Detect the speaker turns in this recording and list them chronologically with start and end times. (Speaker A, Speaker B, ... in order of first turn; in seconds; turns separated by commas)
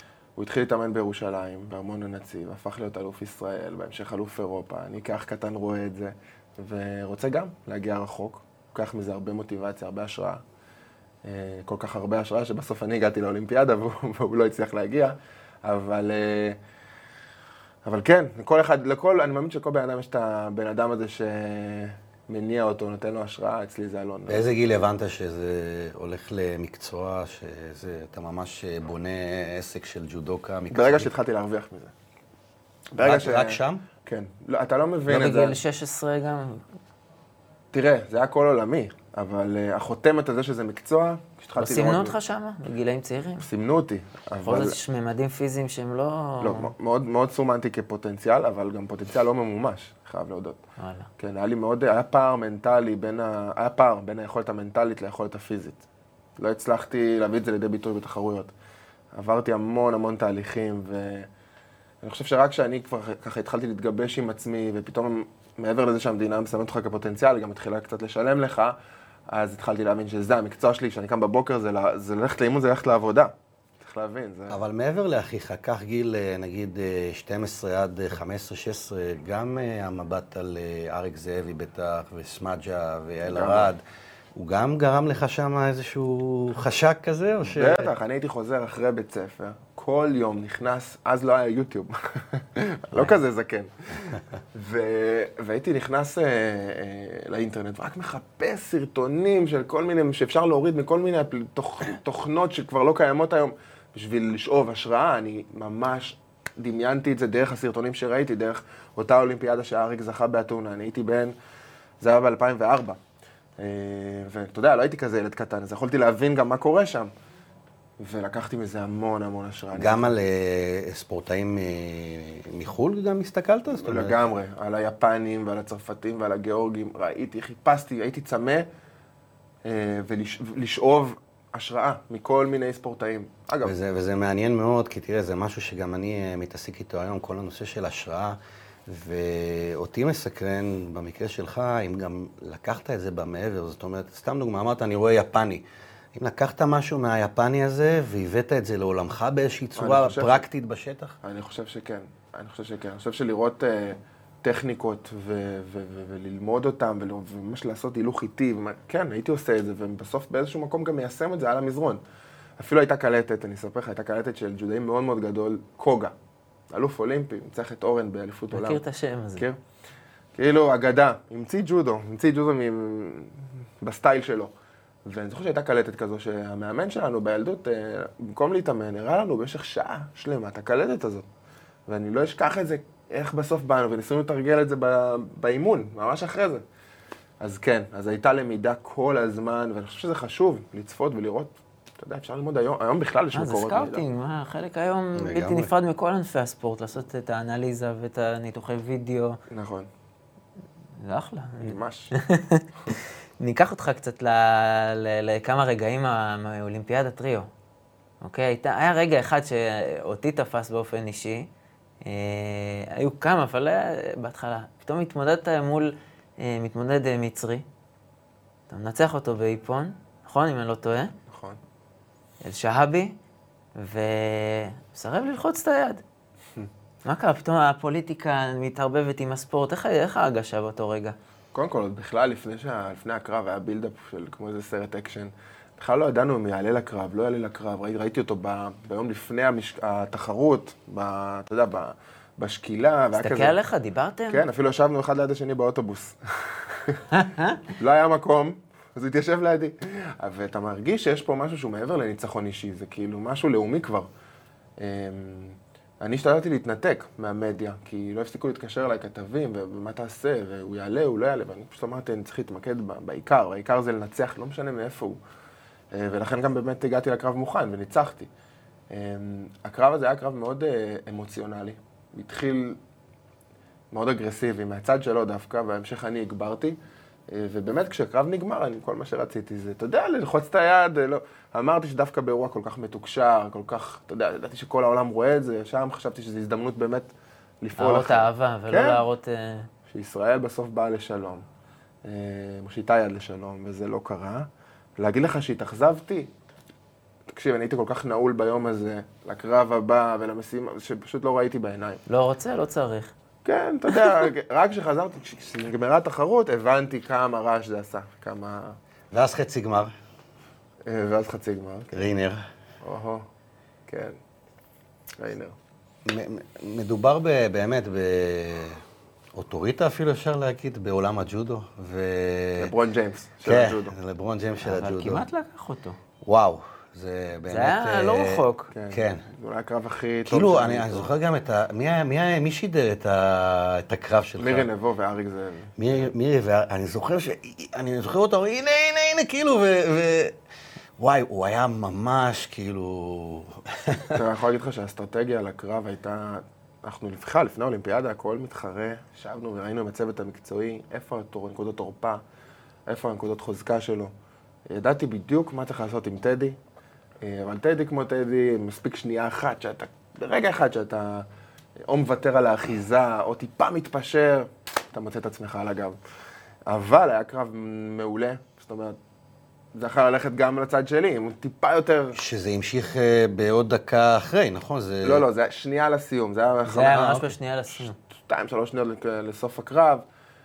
Speaker A: 0.4-10.4, Speaker A: 11.2-16.6, Speaker A: 17.8-24.4, Speaker B: 24.3-31.1, Speaker A: 30.7-31.9, Speaker A: 32.9-35.6, Speaker B: 33.0-33.8, Speaker C: 35.1-36.6, Speaker A: 37.7-42.1, Speaker C: 41.6-43.5, Speaker A: 43.4-44.8, Speaker C: 44.4-46.7, Speaker A: 46.4-50.6, Speaker C: 50.8-51.1, Speaker A: 51.2-55.8, Speaker A: 56.4-58.5, Speaker A: 59.1-61.3, Speaker A: 62.0-68.8, Speaker A: 69.3-74.6, Speaker B: 74.5-83.8, Speaker A: 83.2-83.7, Speaker B: 84.3-87.9, Speaker A: 87.4-111.3, Speaker C: 92.9-93.2, Speaker A: 112.0-113.0, Speaker A: 113.6-117.1, Speaker A: 118.0-120.1, Speaker B: 119.7-124.2, Speaker A: 123.8-128.7, Speaker A: 129.6-133.7, Speaker B: 133.6-151.2, Speaker A: 149.8-150.4, Speaker A: 151.2-162.0, Speaker A: 162.6-166.1, Speaker A: 166.7-168.8, Speaker C: 168.5-169.4, Speaker A: 170.3-174.5, Speaker A: 175.0-181.2, Speaker A: 181.9-186.6, Speaker A: 187.4-194.0, Speaker C: 193.3-199.4, Speaker B: 195.2-195.7, Speaker A: 199.5-199.9, Speaker C: 201.0-207.5, Speaker A: 201.6-202.1, Speaker C: 208.2-211.5, Speaker C: 212.0-217.6, Speaker C: 218.7-221.1, Speaker A: 221.3-221.6, Speaker C: 222.4-223.1, Speaker C: 223.8-226.0, Speaker C: 227.0-231.2, Speaker A: 231.5-243.6, Speaker C: 243.1-244.4, Speaker A: 244.3-247.0, Speaker C: 247.1-247.6, Speaker A: 247.7-254.1, Speaker A: 254.8-265.2, Speaker A: 265.9-268.3, Speaker A: 268.9-272.8, Speaker A: 273.9-276.8, Speaker A: 277.3-289.0, Speaker C: 287.8-289.7, Speaker A: 289.9-291.4, Speaker A: 292.0-294.5, Speaker A: 295.0-296.3, Speaker A: 297.3-302.0, Speaker C: 302.1-303.1, Speaker A: 303.4-308.8, Speaker B: 309.1-309.9, Speaker A: 310.8-312.1, Speaker B: 311.9-312.4, Speaker A: 312.8-313.2, Speaker A: 313.9-314.2, Speaker A: 315.2-315.5, Speaker B: 316.0-318.8, Speaker B: 319.3-322.7, Speaker A: 322.6-323.9, Speaker B: 323.4-325.2, Speaker C: 324.6-326.0, Speaker B: 326.2-329.2, Speaker C: 327.5-328.7, Speaker A: 328.7-331.1, Speaker B: 330.2-334.7, Speaker A: 334.4-335.8, Speaker B: 335.8-340.4, Speaker B: 341.0-344.2, Speaker A: 344.1-352.2, Speaker A: 352.9-354.1, Speaker A: 354.7-356.6, Speaker A: 357.2-361.3, Speaker A: 361.9-366.0, Speaker A: 366.7-369.0, Speaker A: 369.7-372.2, Speaker B: 372.1-375.2, Speaker A: 375.0-380.0, Speaker C: 376.6-377.9